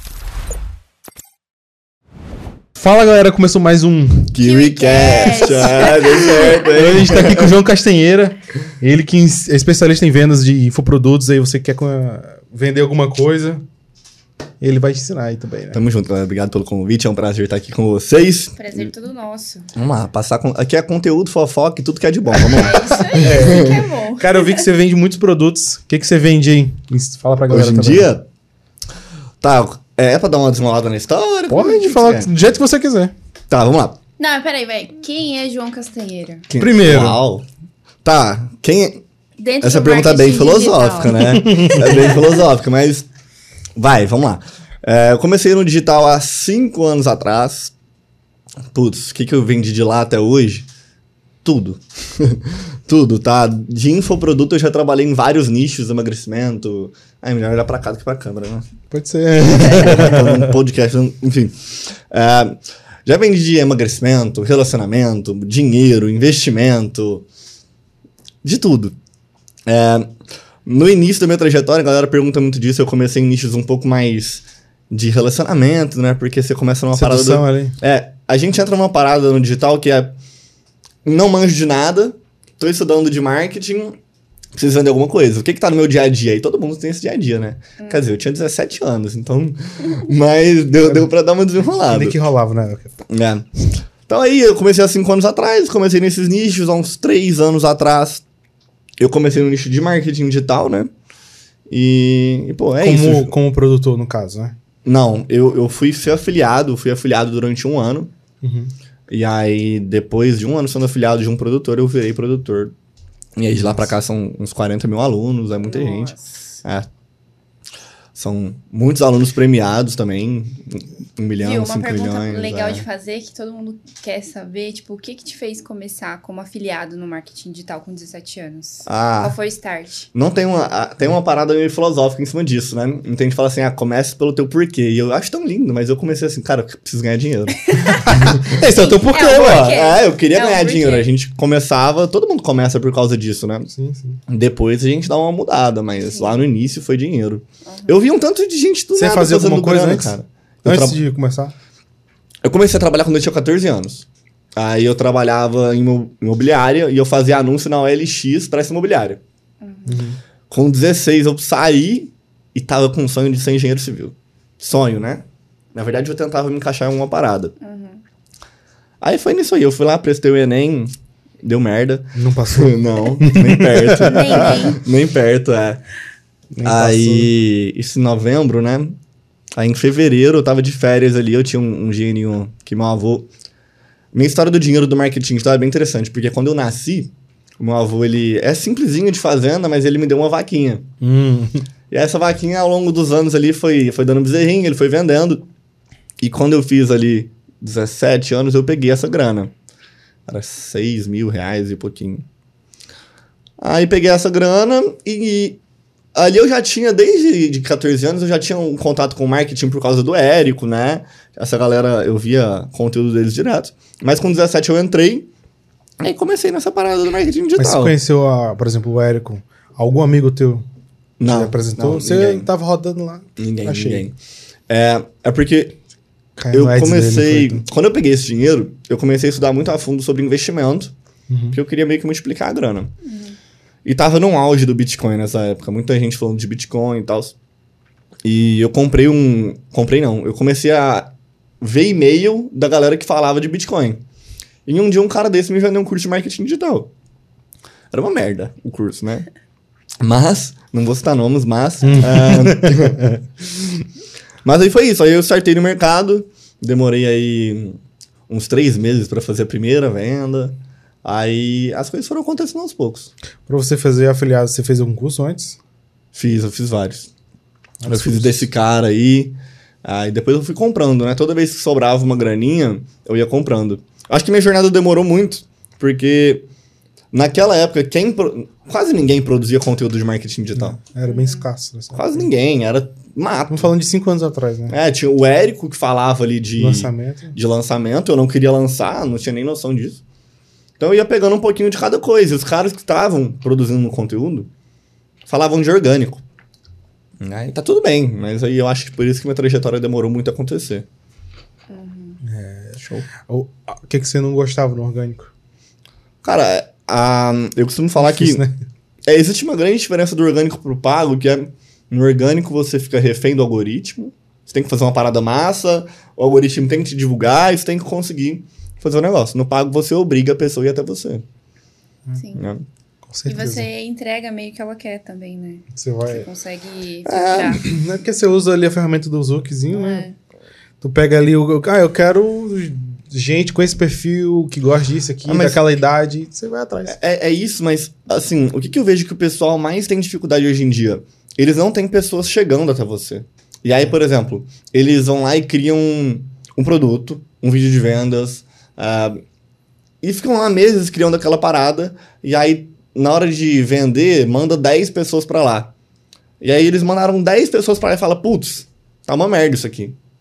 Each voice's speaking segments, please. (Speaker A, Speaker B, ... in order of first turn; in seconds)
Speaker A: 2.8-4.3, 6.0-13.6, 14.6-15.8, 22.4-28.1, 31.5-33.1, 36.6-37.2, 41.2-41.9, 58.9-60.5, 76.9-77.8, 91.8-93.0, 102.8-104.5, 108.4-108.7, 113.6-113.9, 137.8-139.8, 143.7-144.2, 148.9-151.5, 159.9-160.2, 172.2-174.5, 176.5-177.3, 191.0-191.7, 217.6-220.7, 221.2-224.1, 226.4-227.7, 231.3-231.6, 251.8-253.2, 263.5-265.6, 267.8-268.5, 280.6-282.3, 283.5-284.8, 286.6-287.4, 302.2-305.3, 308.0-308.6, 323.1-323.7, 325.7-326.3, 327.6-330.1, 330.8-337.0
Speaker B: 4.3-7.5, 15.7-18.9, 19.8-23.9, 27.5-28.3, 29.4-32.3, 33.5-34.0, 36.5-37.5, 38.0-39.0, 39.6-43.1, 43.8-47.7, 48.7-50.7, 51.4-58.7, 59.5-67.3, 68.4-69.0, 69.7-70.1, 70.7-80.2, 81.0-84.0, 84.5-92.2, 93.1-93.5, 94.0-98.2, 99.0-100.9, 101.7-103.3, 104.8-108.1, 109.1-112.7, 113.4-116.9, 118.2-122.8, 128.8-129.4, 130.1-138.6, 139.3-143.7, 144.3-151.0, 152.4-159.2, 160.5-167.6, 169.0-175.8, 176.6-179.0, 179.6-183.3, 184.1-190.8, 191.9-195.5, 196.2-199.5, 200.3-202.2, 203.6-205.6, 206.1-215.3, 216.0-218.0, 221.2-222.5, 223.4-224.2, 224.7-225.8, 226.5-230.9, 231.5-232.9, 233.8-237.3, 238.2-244.0, 244.7-246.9, 247.9-249.3, 250.0-253.1, 254.4-263.1, 266.1-267.1, 267.9-276.5, 277.1-280.8, 281.9-283.7, 284.7-290.0, 290.8-294.5, 295.3-296.2, 297.2-300.9, 302.8-303.1, 306.2-308.4, 309.1-321.2, 322.4-322.6, 327.1-327.6, 335.3-335.6, 336.9-349.2, 350.0-355.7, 356.4-360.0
Speaker C: 4.4-6.7, 18.6-19.7, 22.5-24.6, 34.2-36.5, 39.4-42.4, 87.8-88.1, 115.7-116.6, 121.4-130.1, 137.7-141.1, 146.0-146.4, 147.7-148.0, 159.6-160.0, 167.6-168.0, 174.0-174.8, 233.0-233.4, 281.1-281.5, 301.7-302.2, 322.2-322.5, 323.3-327.6, 329.7-330.1